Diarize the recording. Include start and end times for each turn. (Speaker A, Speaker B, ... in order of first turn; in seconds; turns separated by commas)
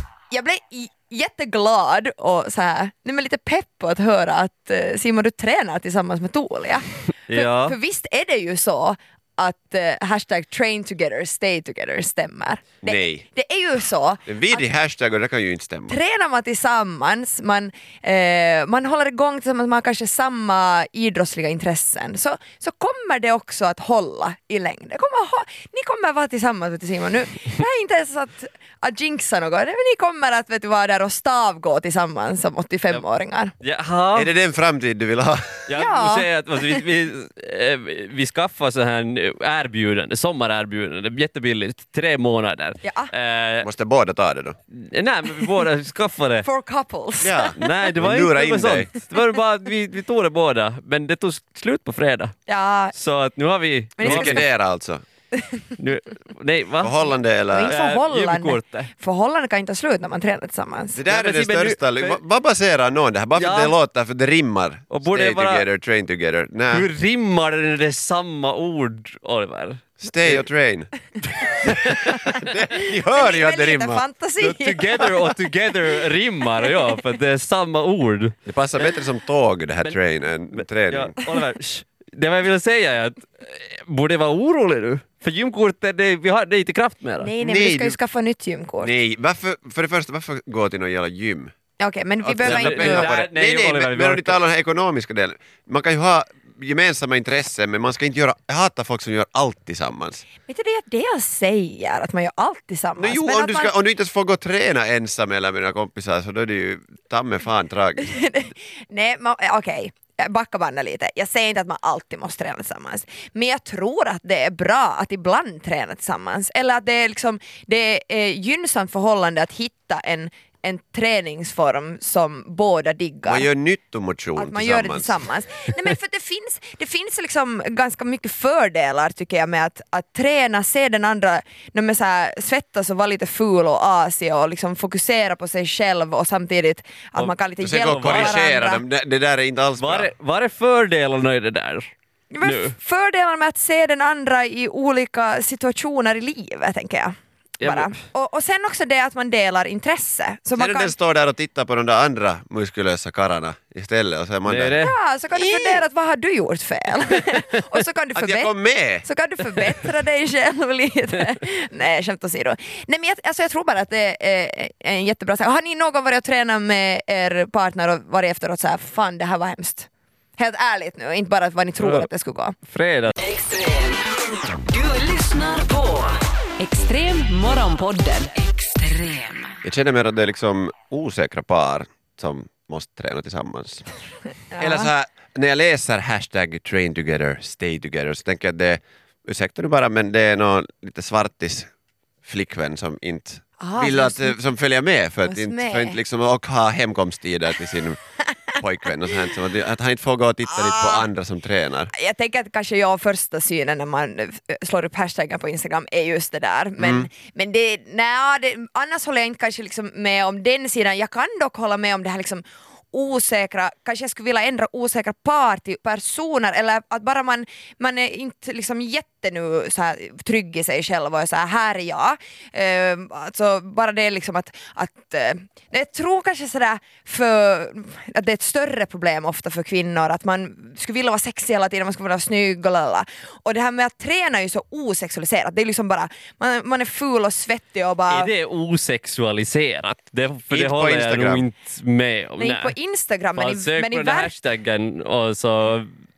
Speaker A: 0.3-14.7, Speaker B: 7.3-7.8, Speaker C: 12.8-13.2, Speaker C: 14.3-16.0, Speaker A: 15.9-33.5, Speaker B: 33.6-34.3, Speaker C: 34.1-35.6, Speaker B: 35.7-43.7, Speaker A: 35.8-36.3, Speaker A: 42.8-43.1, Speaker C: 43.6-44.6, Speaker B: 44.7-46.5, Speaker A: 46.4-47.5, Speaker C: 47.2-48.9, Speaker B: 47.6-52.3, Speaker A: 52.5-52.9, Speaker B: 52.9-54.5, Speaker A: 54.0-54.4, Speaker C: 54.0-55.0, Speaker A: 55.3-55.7, Speaker B: 55.8-57.0, Speaker C: 56.8-57.8, Speaker A: 57.5-61.0, Speaker B: 57.6-58.9, Speaker C: 61.0-66.9, Speaker B: 61.1-62.2, Speaker B: 63.4-63.8, Speaker B: 64.9-65.7, Speaker B: 66.7-70.4, Speaker C: 70.0-74.1, Speaker B: 71.7-72.2, Speaker A: 72.7-75.0, Speaker B: 74.4-79.0, Speaker C: 78.5-81.2, Speaker B: 80.5-87.3, Speaker A: 87.2-88.9, Speaker C: 87.4-88.0, Speaker C: 88.8-91.5, Speaker A: 91.8-93.1, Speaker C: 92.2-100.2, Speaker B: 92.4-94.4, Speaker A: 100.5-103.8, Speaker C: 103.0-108.2, Speaker A: 108.0-123.5, Speaker C: 123.3-125.2, Speaker A: 124.4-138.8, Speaker C: 137.6-140.1, Speaker B: 137.9-138.4, Speaker B: 139.8-141.9, Speaker A: 142.3-151.0, Speaker B: 142.4-142.8, Speaker B: 147.6-148.0, Speaker C: 150.6-154.8, Speaker B: 154.5-154.9, Speaker A: 154.8-172.6, Speaker C: 158.2-159.1, Speaker B: 171.8-172.1, Speaker B: 172.7-173.2, Speaker D: 173.2-174.1, Speaker D: 174.7-179.6, Speaker C: 179.6-183.9, Speaker A: 184.5-184.9, Speaker C: 184.6-191.7, Speaker C: 192.2-198.0, Speaker A: 193.6-194.4, Speaker A: 195.2-196.0, Speaker A: 198.2-198.5, Speaker C: 198.6-201.9, Speaker A: 200.5-201.1, Speaker A: 201.9-238.3, Speaker C: 206.8-207.1, Speaker B: 238.1-242.8, Speaker C: 240.5-241.4, Speaker A: 242.4-244.3, Speaker B: 243.4-245.9